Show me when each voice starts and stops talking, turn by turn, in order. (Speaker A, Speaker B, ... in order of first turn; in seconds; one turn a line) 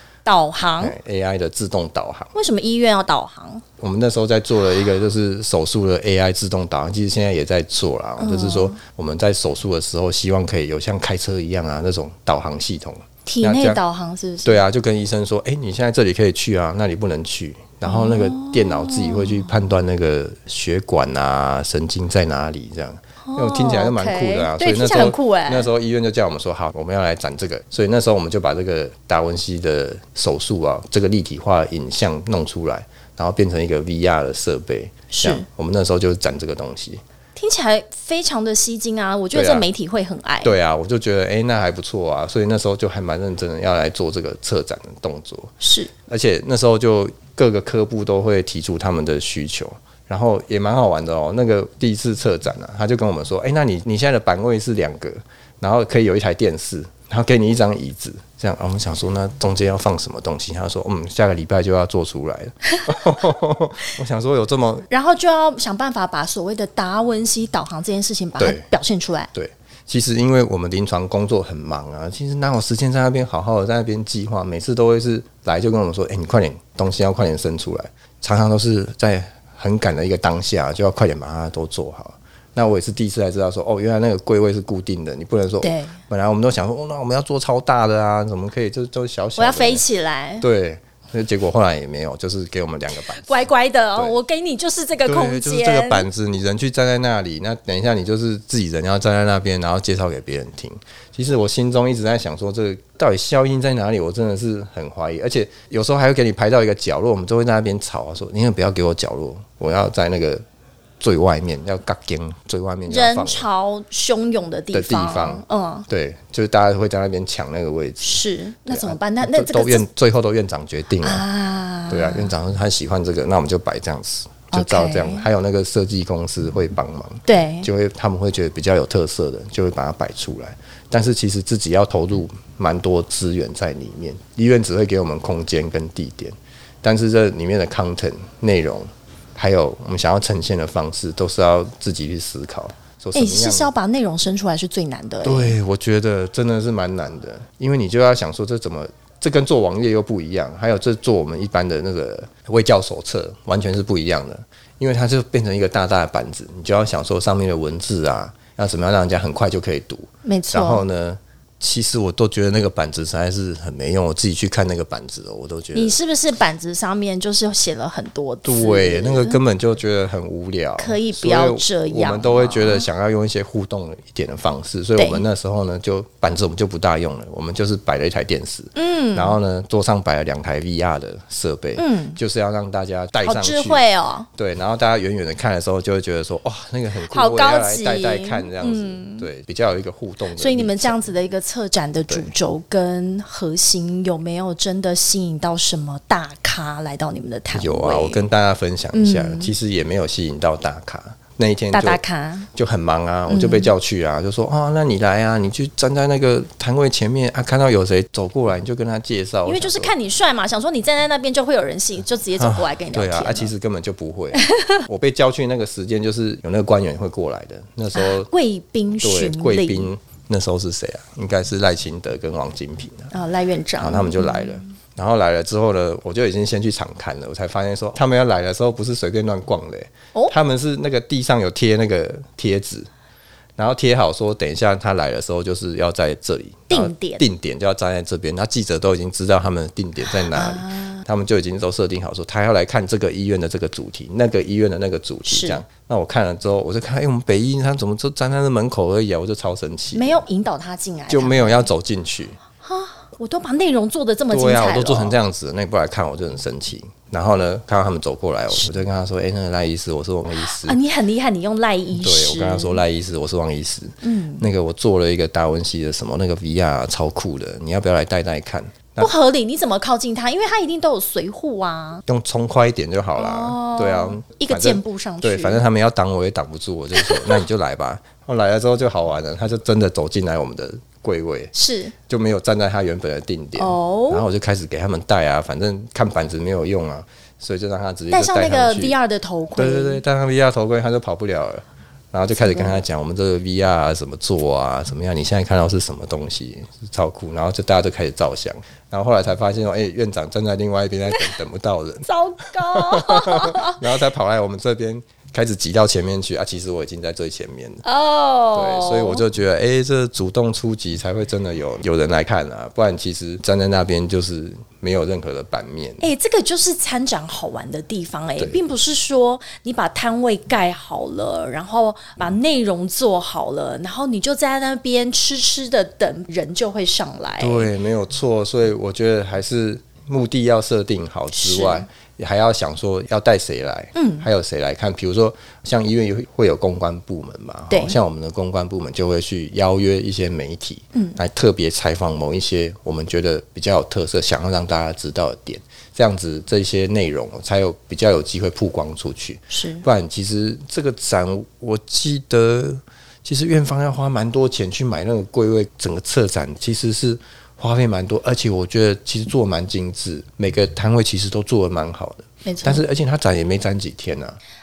Speaker A: 0.2-0.9
Speaker B: 0.8-2.3
Speaker A: 2.3-3.6
Speaker B: 3.8-13.8
Speaker A: 8.2-8.8
Speaker A: 13.2-14.6
Speaker B: 14.4-37.0
Speaker A: 17.9-19.5
Speaker A: 23.2-25.7
Speaker A: 35.1-35.4
Speaker A: 37.4-40.5
Speaker B: 39.3-39.6
Speaker B: 40.4-45.5
Speaker A: 45.6-45.9
Speaker B: 46.1-64.9
Speaker A: 64.9-69.3
Speaker B: 68.4-68.6
Speaker B: 69.3-89.8
Speaker A: 85.6-86.0
Speaker A: 89.4-90.5
Speaker B: 90.4-94.2
Speaker A: 93.1-96.0
Speaker B: 95.0-110.4
Speaker B: 111.0-113.5
Speaker A: 112.9-115.9
Speaker B: 114.7-121.2
Speaker A: 118.0-119.8
Speaker A: 121.0-122.3
Speaker B: 121.9-143.7
Speaker A: 124.5-125.3
Speaker A: 127.3-127.7
Speaker A: 143.1-145.5
Speaker B: 145.2-165.9
Speaker A: 160.2-160.8
Speaker A: 165.7-169.4
Speaker B: 168.4-183.8
Speaker A: 170.8-172.9
Speaker A: 174.9-175.2
Speaker A: 178.8-179.4
Speaker A: 181.8-182.2
Speaker A: 183.2-184.3
Speaker B: 184.3-191.1
Speaker A: 187.1-189.3
Speaker A: 190.4-198.2
Speaker B: 197.5-202.0
Speaker A: 198.9-199.5
Speaker A: 201.7-202.5
Speaker B: 202.5-209.9
Speaker A: 203.3-203.7
Speaker A: 209.4-213.5
Speaker B: 212.4-218.3
Speaker A: 214.3-214.8
Speaker A: 217.9-219.9
Speaker B: 219.0-223.1
Speaker A: 223.1-224.6
Speaker B: 223.8-232.9
Speaker B: 233.6-250.2
Speaker A: 236.7-237.2
Speaker A: 240.1-241.0
Speaker A: 245.3-245.6
Speaker A: 249.9-251.7
Speaker B: 251.1-252.4
Speaker A: 252.6-255.2
Speaker B: 254.3-260.8
Speaker A: 260.4-262.8
Speaker B: 261.9-269.1
Speaker A: 264.0-264.4
Speaker A: 269.0-272.0
Speaker B: 272.1-281.5
Speaker A: 273.1-275.6
Speaker A: 276.9-277.4
Speaker A: 281.5-281.9
Speaker B: 282.1-288.9
Speaker A: 283.6-284.2
Speaker A: 288.1-290.0
Speaker B: 289.6-307.8
Speaker A: 292.4-292.8
Speaker A: 302.0-303.8
Speaker A: 307.8-309.2
Speaker B: 308.5-316.1
Speaker A: 316.0-327.7
Speaker B: 327.4-364.4
Speaker A: 331.3-331.9
Speaker A: 333.9-334.2
Speaker A: 337.7-337.9
Speaker A: 340.9-341.2
Speaker A: 349.5-349.8
Speaker A: 362.4-362.8